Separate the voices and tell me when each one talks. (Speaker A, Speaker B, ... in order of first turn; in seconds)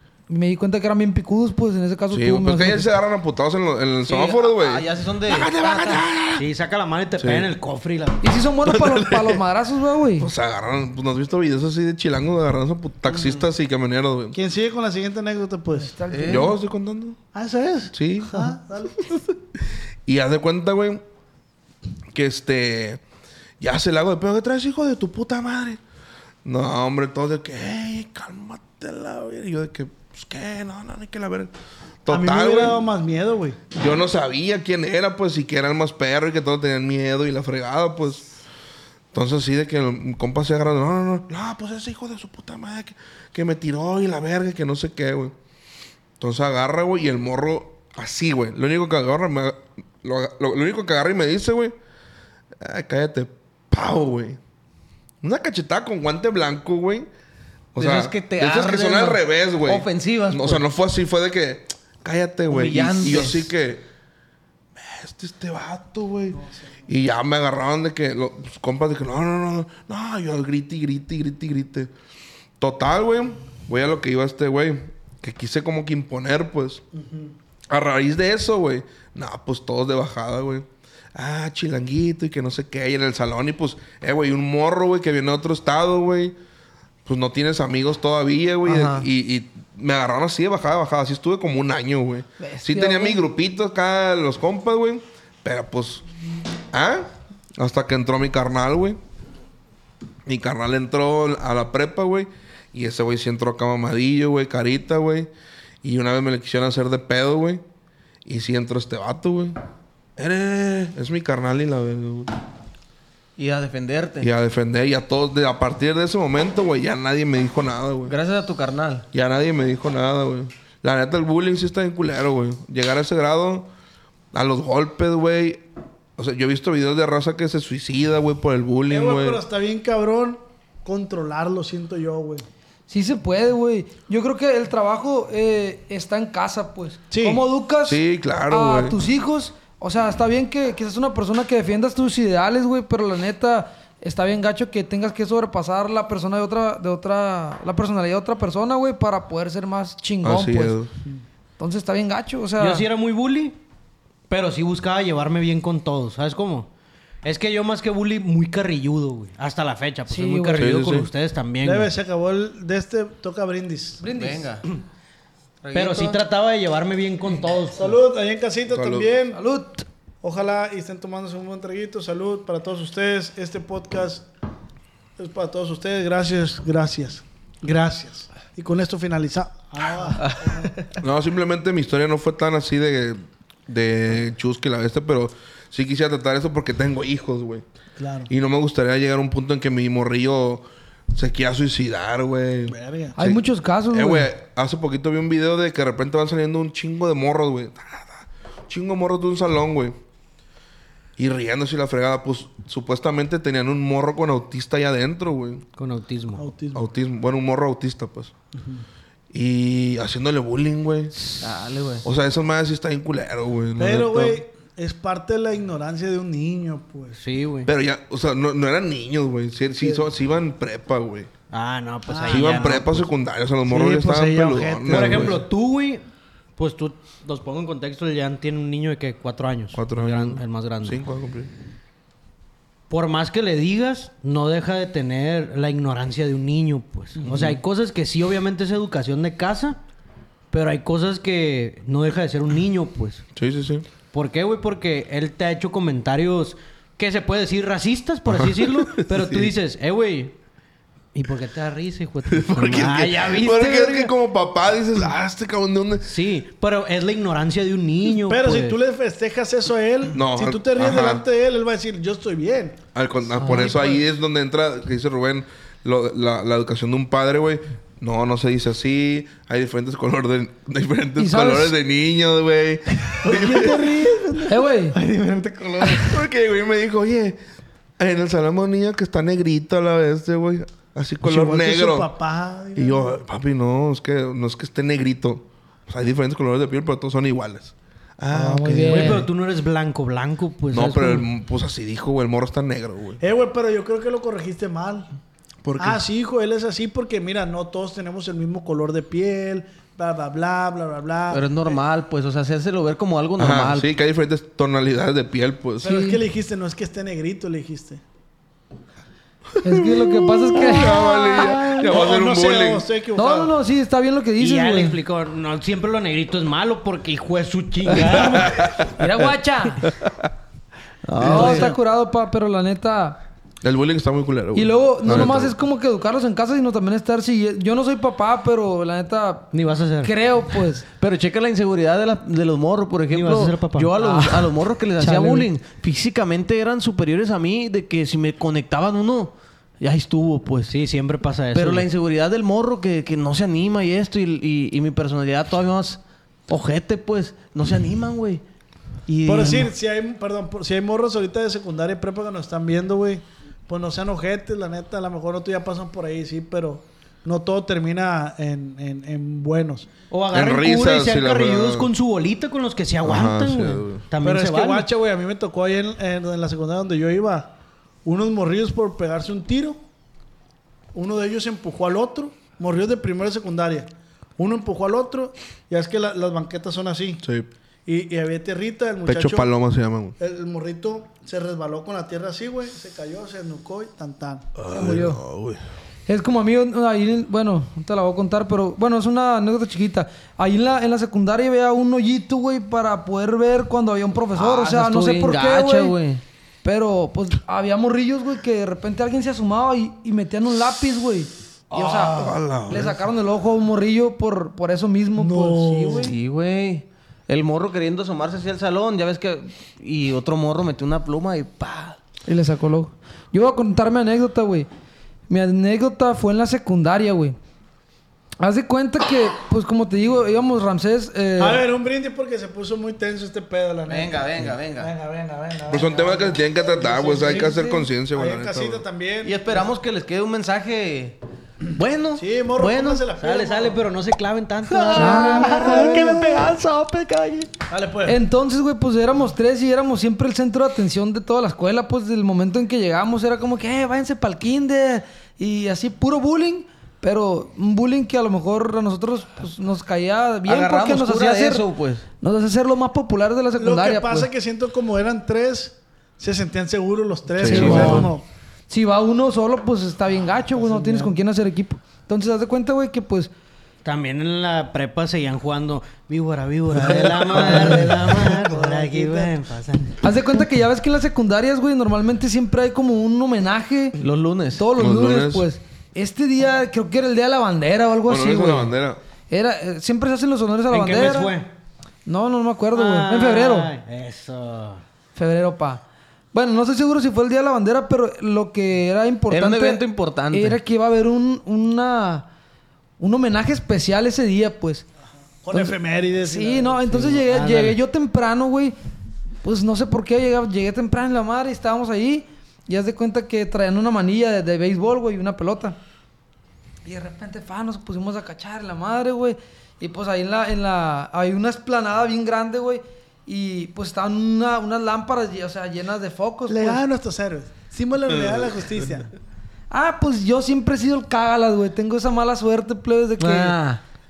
Speaker A: 0.3-2.9, 8.2-10.3, 15.8-16.6, 92.4-93.2, 132.9-150.8, 151.6-152.8, 160.1-160.7, 164.0-164.5, 169.3-169.8, 193.2-194.3, 263.4-264.0, 271.2-271.7, 274.5-274.9, 288.3-289.2, 305.8-306.2, 309.6-311.8, 313.1-315.0, 318.9-319.8, 321.2-323.2, 324.5-330.8, 384.7-385.2, 386.1-395.9, 396.6-406.1, 412.3-414.7, 415.3-417.4, 418.4-421.6, 427.2-427.9, 434.9-435.9, 438.1-451.6, 452.2-454.3, 457.4-458.1, 458.7-463.3, 470.0-474.0, 474.6-478.7, 479.3-481.3, 482.1-483.7, 485.1-485.8, 486.3-492.3, 493.0-494.8, 495.5-498.7, 499.4-505.8, 506.8-516.8, 519.7-523.6
Speaker B: 2.1-6.5, 7.2-7.5, 8.6-9.4, 10.2-14.3, 16.2-17.2, 17.9-18.5, 20.1-21.0, 22.1-23.0, 23.6-25.8, 26.4-31.5, 32.0-32.8, 33.7-38.3, 39.1-45.3, 46.2-51.7, 52.6-54.4, 55.2-57.1, 57.7-63.8, 64.8-71.9, 72.6-76.8, 77.7-86.3, 87.0-96.0, 96.7-99.0, 100.2-105.3, 105.8-107.6, 108.2-109.6, 110.2-112.3, 114.2-118.1, 119.1-123.7, 124.3-125.7, 126.2-129.4, 137.8-139.0, 150.2-150.9, 160.5-161.1, 168.7-169.1, 181.0-187.6, 188.3-199.9, 201.2-205.6, 206.7-208.3, 209.3-211.1, 212.0-214.4, 217.7-221.3, 222.3-225.4, 229.7-231.5, 237.2-237.6, 243.3-243.8, 248.3-249.5, 252.3-256.1, 260.1-261.2, 262.9-274.3, 275.8-277.4, 278.0-282.1, 282.8-289.2, 290.7-293.2, 295.6-296.0, 303.4-305.9, 309.6-312.8, 318.1-318.9, 321.2-321.6, 323.6-325.5, 360.3-361.9, 363.0-364.1, 377.2-377.5, 379.0-380.2, 384.6-385.6, 402.0-403.0, 425.7-428.8, 457.4-458.1, 474.7-475.4, 478.1-479.0
Speaker C: 4.0-6.0, 13.1-13.4, 16.1-16.5, 57.8-60.6, 62.5-63.5, 88.6-89.1, 113.4-114.3, 118.0-119.0, 164.1-164.6, 165.6-166.2, 211.4-212.0, 301.3-303.9, 321.1-321.7, 331.0-340.7, 341.5-348.4, 349.1-349.7, 394.3-396.2, 406.0-412.0, 423.9-424.9, 429.2-431.2, 431.7-433.0, 434.7-437.5, 450.4-452.0, 474.0-474.6, 489.3-490.6, 523.2-523.8
Speaker D: 6.4-8.2, 152.6-153.6, 154.3-156.7, 157.2-161.9, 165.7-167.9, 205.8-206.4, 217.2-217.7, 221.5-223.1, 224.9-226.0, 226.6-231.0, 232.9-239.8, 240.5-243.2, 244.1-250.3, 251.1-254.1, 256.0-258.8, 288.9-291.3, 314.4-318.7, 321.3-321.6, 329.5-330.1, 333.1-335.4, 340.7-341.9, 360.1-364.9, 433.2-436.0, 463.8-470.0, 480.7-481.5, 482.7-484.8, 497.1-497.8
Speaker E: 14.3-15.9, 17.3-19.1, 32.1-33.6, 66.3-66.7, 76.9-77.3, 128.9-132.4, 137.1-137.4, 161.6-164.0, 167.7-169.4, 170.2-174.2, 175.2-180.9, 188.0-188.3, 192.7-193.2, 206.4-206.9, 213.8-217.2, 219.8-220.1, 222.1-222.8, 223.7-225.4, 258.3-262.8, 273.2-274.6, 281.2-283.2, 293.2-295.1, 295.8-301.8, 305.8-308.0, 311.6-313.5, 349.2-359.9, 364.2-369.8, 370.9-377.2, 377.9-379.5, 380.2-385.1, 401.8-402.2, 405.2-406.1, 421.4-429.7, 432.1-433.8, 435.1-436.5, 437.7-438.2, 453.6-458.2, 460.6-461.1, 466.9-469.3, 495.4-497.2, 516.5-519.1